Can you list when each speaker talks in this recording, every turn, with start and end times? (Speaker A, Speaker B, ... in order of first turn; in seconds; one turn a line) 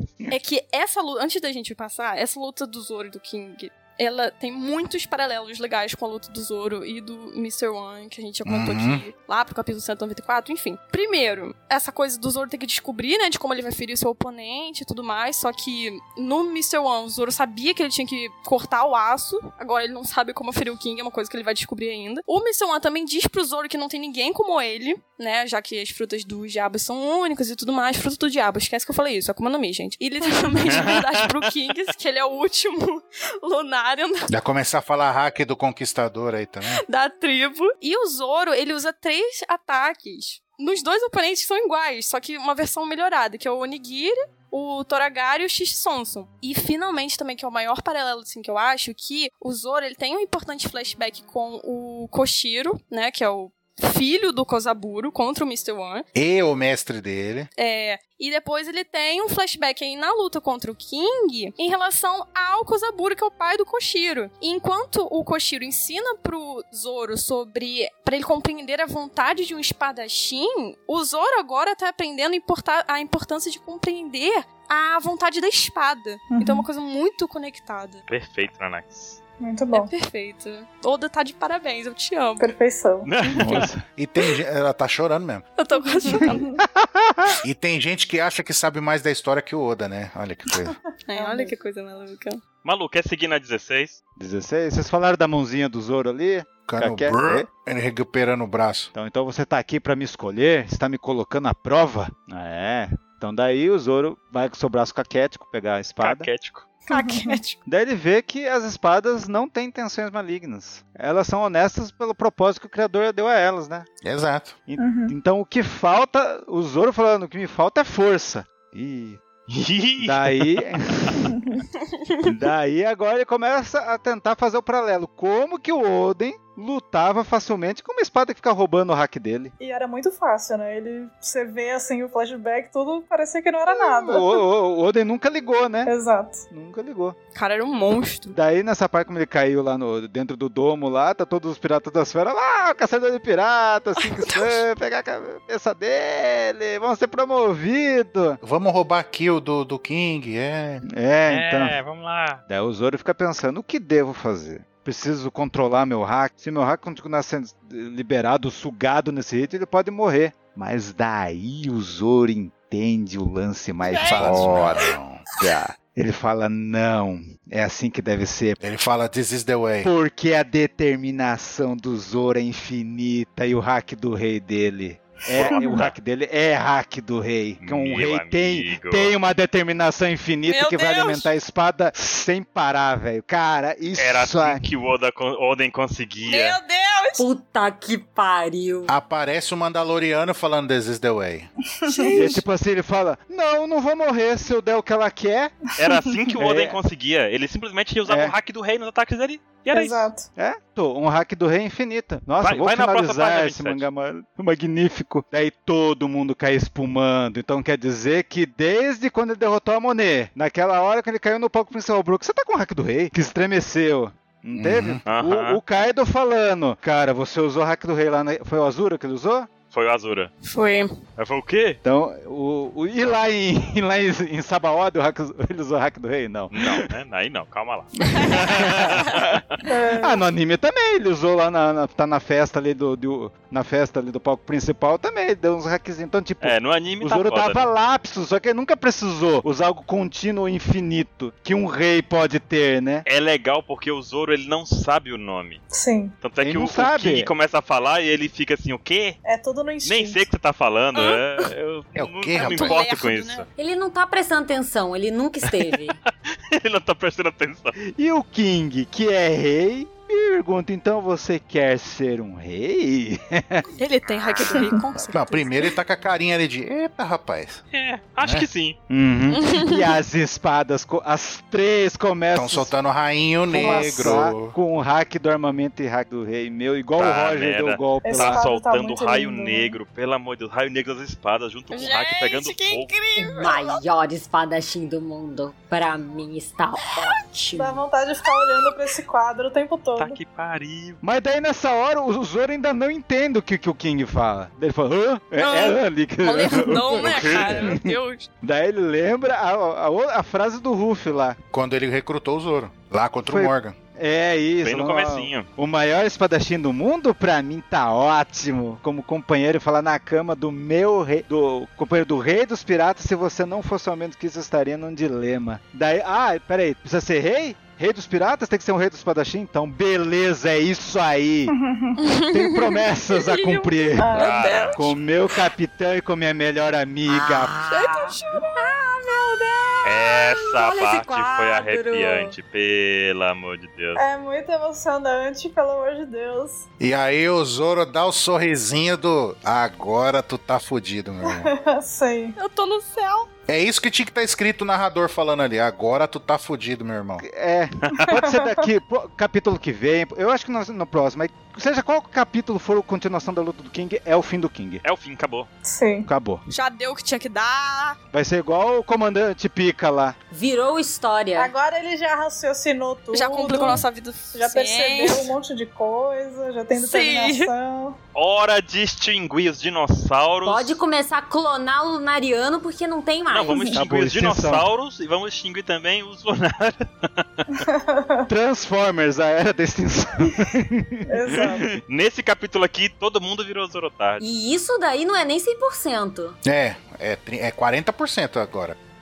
Speaker A: 0.3-34.3
Speaker B: 8.4-9.0
Speaker C: 30.6-31.3
Speaker B: 34.3-36.8
Speaker A: 36.8-56.0
Speaker B: 56.1-57.5
Speaker A: 57.6-78.0
Speaker D: 76.3-76.7
Speaker C: 78.1-79.2
Speaker D: 79.4-79.9
Speaker A: 79.7-82.5
Speaker D: 82.4-83.1
Speaker C: 83.0-83.7
Speaker E: 83.4-83.8
Speaker B: 84.0-85.4
Speaker A: 85.6-86.5
Speaker D: 85.8-86.6
Speaker E: 86.6-87.4
Speaker B: 87.4-90.8
Speaker D: 90.5-91.5
Speaker A: 91.1-92.4
Speaker C: 92.6-94.0
Speaker E: 94.2-97.5
Speaker B: 96.7-98.9
Speaker E: 98.9-106.3
Speaker C: 106.0-106.7
Speaker D: 106.9-107.4
Speaker A: 106.9-107.6
Speaker E: 107.7-113.9
Speaker B: 114.0-114.6
Speaker E: 114.7-119.2
Speaker D: 114.8-115.1
Speaker C: 119.5-121.2
Speaker E: 120.0-121.2
Speaker D: 121.3-121.6
Speaker E: 122.2-129.5
Speaker D: 129.6-134.4
Speaker E: 133.7-135.9
Speaker D: 135.8-136.4
Speaker E: 136.5-137.2
Speaker A: 137.3-138.4
Speaker E: 138.3-148.4
Speaker A: 144.0-144.6
Speaker B: 148.4-150.8
Speaker E: 150.8-151.7
Speaker C: 151.2-152.4
Speaker E: 152.5-168.6
Speaker A: 163.8-164.9
Speaker B: 164.1-165.2
Speaker B: 168.6-169.9
Speaker E: 169.8-184.6
Speaker D: 175.2-175.9
Speaker C: 175.3-175.9
Speaker C: 177.6-179.2
Speaker A: 180.5-181.3
Speaker C: 183.9-186.6
Speaker A: 186.2-187.3
Speaker F: 187.2-188.9
Speaker B: 188.9-191.5
Speaker D: 191.8-192.4
Speaker A: 191.9-192.4
Speaker E: 192.1-195.5
Speaker C: 195.8-200.1
Speaker D: 195.8-196.1
Speaker E: 196.4-196.8
Speaker E: 198.1-198.3
Speaker D: 199.7-200.3
Speaker E: 200.3-219.5
Speaker C: 202.4-203.8
Speaker B: 214.6-215.0
Speaker C: 215.1-215.6
Speaker C: 219.7-220.3
Speaker A: 220.4-221.0
Speaker C: 221.2-221.8
Speaker E: 221.8-226.8
Speaker C: 226.5-229.4
Speaker E: 228.1-229.4
Speaker D: 229.7-230.2
Speaker E: 230.0-243.0
Speaker C: 236.4-237.7
Speaker C: 243.0-245.6
Speaker D: 245.7-246.2
Speaker C: 246.2-249.2
Speaker E: 246.4-247.3
Speaker D: 249.2-250.3
Speaker C: 249.8-253.5
Speaker A: 250.9-251.2
Speaker B: 251.9-252.8
Speaker A: 252.3-253.4
Speaker F: 253.6-256.0
Speaker C: 256.3-257.8
Speaker E: 257.9-263.7
Speaker A: 263.8-265.7
Speaker D: 264.5-264.9
Speaker B: 265.1-267.6
Speaker C: 267.7-268.8
Speaker B: 268.2-268.5
Speaker E: 268.9-272.7
Speaker A: 269.3-269.9
Speaker B: 272.3-274.6
Speaker E: 273.5-278.4
Speaker D: 273.6-274.2
Speaker C: 276.9-282.9
Speaker D: 278.0-279.8
Speaker A: 281.7-283.8
Speaker F: 283.2-287.8
Speaker D: 287.5-290.2
Speaker C: 289.9-291.0
Speaker E: 291.0-301.4
Speaker A: 295.4-298.3
Speaker C: 297.0-297.7
Speaker B: 301.5-303.8
Speaker E: 303.2-321.5
Speaker C: 304.6-305.5
Speaker D: 321.5-322.0
Speaker A: 322.0-324.8
Speaker E: 322.3-327.6
Speaker D: 324.0-324.6
Speaker C: 324.1-325.0
Speaker F: 327.1-332.3
Speaker A: 327.7-329.5
Speaker D: 328.3-328.7
Speaker C: 329.8-334.0
Speaker D: 333.9-336.6
Speaker B: 336.8-341.5
Speaker D: 341.2-342.4
Speaker A: 342.4-343.3
Speaker B: 343.5-347.2
Speaker E: 347.2-354.8
Speaker C: 347.8-348.1
Speaker D: 348.1-348.7
Speaker C: 354.8-355.5
Speaker D: 355.6-356.1
Speaker E: 356.1-356.4
Speaker A: 356.5-358.0
Speaker E: 358.1-360.2
Speaker F: 360.3-361.5
Speaker D: 361.3-368.0
Speaker A: 363.1-365.3
Speaker A: 366.8-367.5
Speaker C: 368.1-370.8
Speaker F: 370.4-373.7
Speaker C: 373.3-377.6
Speaker E: 373.7-374.7
Speaker D: 377.6-378.3
Speaker E: 378.3-381.8
Speaker D: 381.1-381.7
Speaker C: 381.8-384.2
Speaker F: 384.2-386.4
Speaker B: 386.4-388.8